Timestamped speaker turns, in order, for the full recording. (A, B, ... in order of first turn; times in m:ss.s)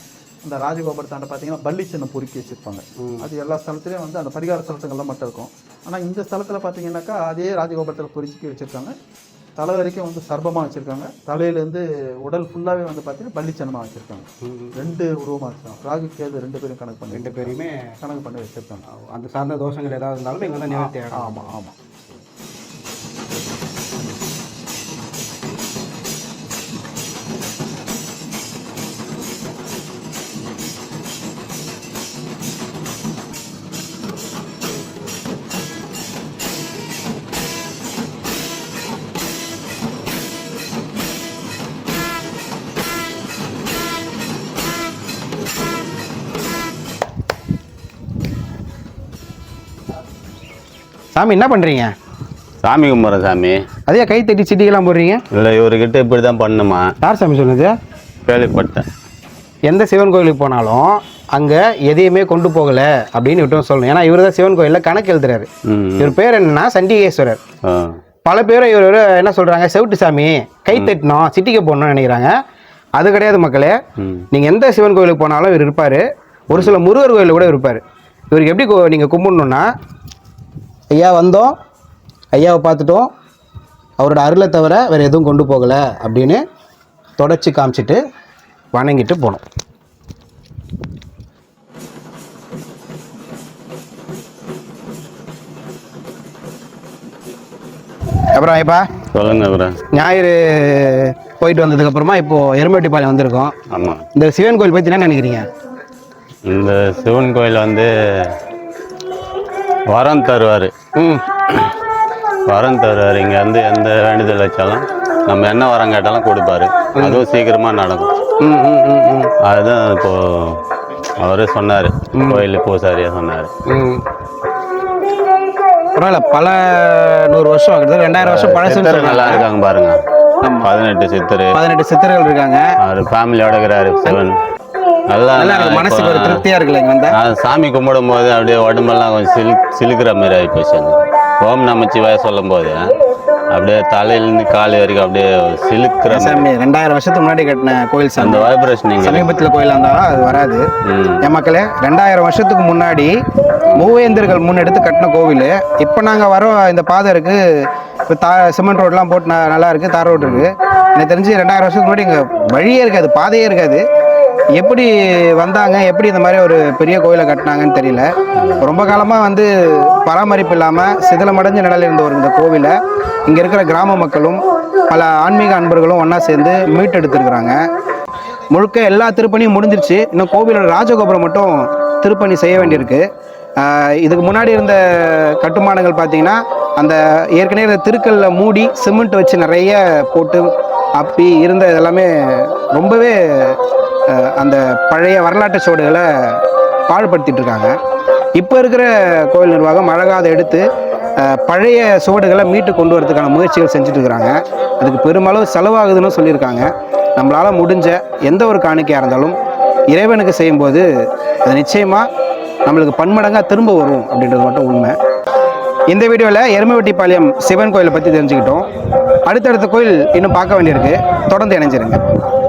0:00.4-0:09.0 A
0:03.0-0:03.3 B
0:09.6-0:18.8 A
0:14.5-0:14.8 B
0:17.1-0:17.9 B
0:18.9-0:21.6 B
0:20.7-0:21.8 A
0:51.2-0:51.9 B
0:52.6-0:53.6 C
0:53.9-0:55.2 B
0:55.3-0:56.9 C
0:57.0-0:57.7 B
0:58.3-0:58.9 C
0:59.7-1:07.4 B
1:05.7-1:06.2 C
1:07.6-1:08.0 C
1:08.2-1:12.3 B
1:13.0-1:13.8 B
1:14.0-1:14.2 C
1:14.3-1:19.7 B
1:20.9-1:21.5 B
1:22.3-1:23.1 B
1:24.0-1:26.4 B
1:27.2-1:28.0 B
1:28.7-1:29.4 B
1:38.3-1:38.9 B
1:39.1-1:39.8 C
1:39.9-1:43.6 B
1:43.7-1:44.0 C
1:44.1-1:45.5 B
1:46.5-1:48.3 C
1:49.9-1:50.7 C
1:51.0-1:51.7 B
1:52.5-1:58.1 C
1:57.0-1:57.2 B
1:58.4-1:59.3 B
1:59.4-2:00.6 C
2:01.2-2:03.5 C
2:02.1-2:02.4 B
2:03.7-2:04.0 B
2:05.9-2:09.5 B
2:08.2-2:10.0 C
2:10.4-2:10.7 B
2:10.6-2:11.5 C
2:11.5-2:12.7 B
2:12.8-2:14.4 C
2:15.1-2:16.4 C
2:15.3-2:17.2 B
2:17.1-2:22.9 C
2:23.5-2:26.5 C
2:26.1-2:30.6 B
2:28.2-2:29.3 C
2:30.8-2:31.2 C
2:31.2-2:33.1 B
2:33.7-2:37.4 B
2:38.1-2:43.8 B
2:40.2-2:40.5 C
2:44.6-2:48.1 B
2:48.4-2:48.7 C
2:48.6-2:52.7 B
2:53.3-2:57.6 B
2:58.5-3:03.0 B
3:02.6-3:02.8 C
3:03.6-3:13.6 B
3:14.1-3:17.7 B
3:18.4-3:20.6 B
3:21.2-3:29.4 B
3:29.9-3:30.9 B
3:31.4-3:32.1 B
3:32.7-3:35.0 B
3:35.9-3:38.7 B
3:39.2-3:42.0 B